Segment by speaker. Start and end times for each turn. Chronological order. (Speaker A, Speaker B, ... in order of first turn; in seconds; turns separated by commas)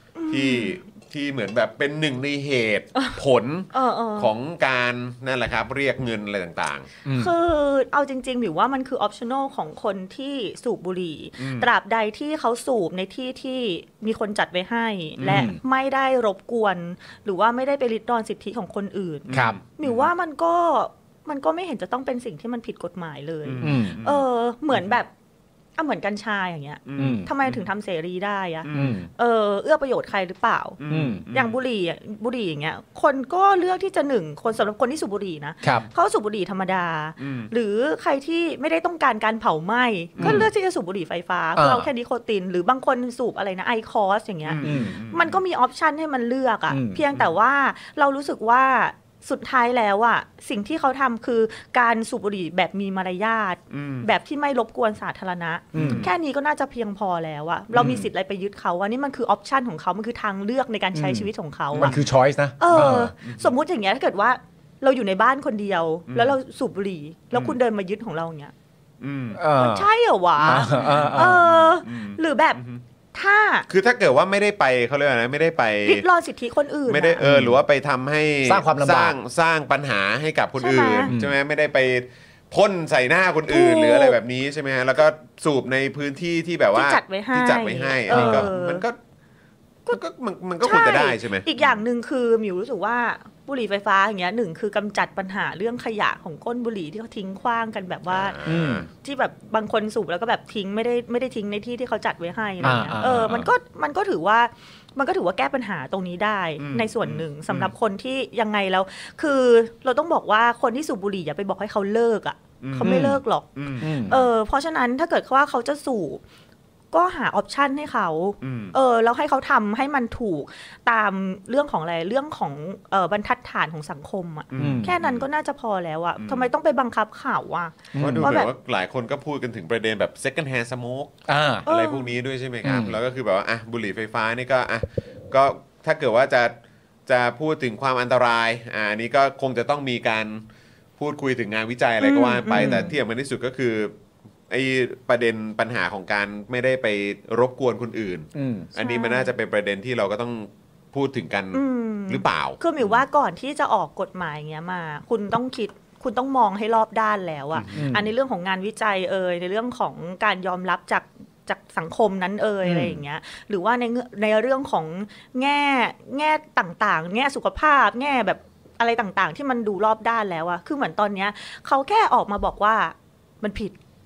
Speaker A: 0.1-0.8, Speaker B: 0.3-6.9, Speaker A: 3.7-4.3, Speaker C: 7.0-7.3, Speaker A: 7.1-25.1, Speaker B: 11.4-11.7, Speaker B: 15.2-15.5, Speaker C: 15.2-15.6, Speaker B: 19.3-20.1, Speaker C: 19.3-19.6, Speaker B: 23.4-25.0, Speaker C: 23.6-24.0, Speaker A: 25.8-30.8, Speaker B: 26.9-27.6, Speaker C: 26.9-27.3, Speaker B: 28.6-29.0, Speaker C: 28.7-29.1, Speaker B: 30.8-31.6, Speaker C: 30.9-31.2, Speaker A: 31.3-62.0, Speaker B: 37.2-37.5, Speaker B: 40.2-40.5, Speaker C: 40.2-40.5, Speaker C: 41.6-41.9, Speaker B: 44.4-45.4, Speaker C: 44.6-44.9, Speaker C: 46.7-47.0, Speaker B: 53.7-54.1, Speaker C: 55.7-56.1, Speaker B: 55.8-56.1, Speaker C: 57.8-58.0, Speaker B: 57.8-58.1, Speaker C: 60.9-63.1, Speaker B: 61.7-62.0, Speaker A: 62.6-68.5, Speaker B: 62.7-63.5, Speaker B: 66.1-66.3, Speaker B: 67.3-67.6, Speaker B: 69.0-69.4, Speaker C: 69.3-69.9, Speaker A: 69.6-72.6, Speaker C: 70.4-71.4, Speaker B: 70.4-72.8, Speaker A: 73.1-73.7, Speaker B: 73.7-76.0, Speaker A: 75.8-77.2, Speaker B: 76.9-89.0, Speaker C: 77.2-77.6, Speaker C: 78.5-79.2, Speaker A: 80.6-81.1, Speaker C: 81.1-81.3, Speaker A: 83.5-84.2, Speaker A: 86.7-88.8, Speaker C: 88.1-88.5, Speaker B: 89.9-91.8, Speaker A: 90.6-116.2, Speaker B: 98.1-98.8, Speaker C: 98.4-98.9, Speaker B: 102.6-103.5, Speaker C: 102.6-103.1, Speaker B: 106.6-107.7, Speaker B: 112.6-113.0, Speaker C: 112.8-113.2, Speaker B: 113.5-114.3, Speaker C: 113.8-114.2, Speaker A: 116.9-128.5, Speaker B: 118.4-118.7, Speaker B: 124.5-125.3, Speaker C: 124.6-124.9, Speaker B: 126.2-126.5, Speaker C: 127.9-128.3, Speaker B: 128.0-131.1, Speaker C: 131.3-131.7, Speaker B: 131.6-136.5, Speaker A: 131.7-132.1, Speaker C: 132.6-133.0, Speaker B: 137.1-140.4, Speaker B: 141.0-143.9, Speaker A: 142.0-142.9, Speaker C: 142.5-142.9, Speaker B: 144.5-152.9, Speaker C: 148.3-148.7, Speaker A: 148.8-149.3, Speaker A: 151.5-173.8, Speaker B: 157.5-157.9, Speaker C: 157.7-158.1, Speaker C: 162.6-163.0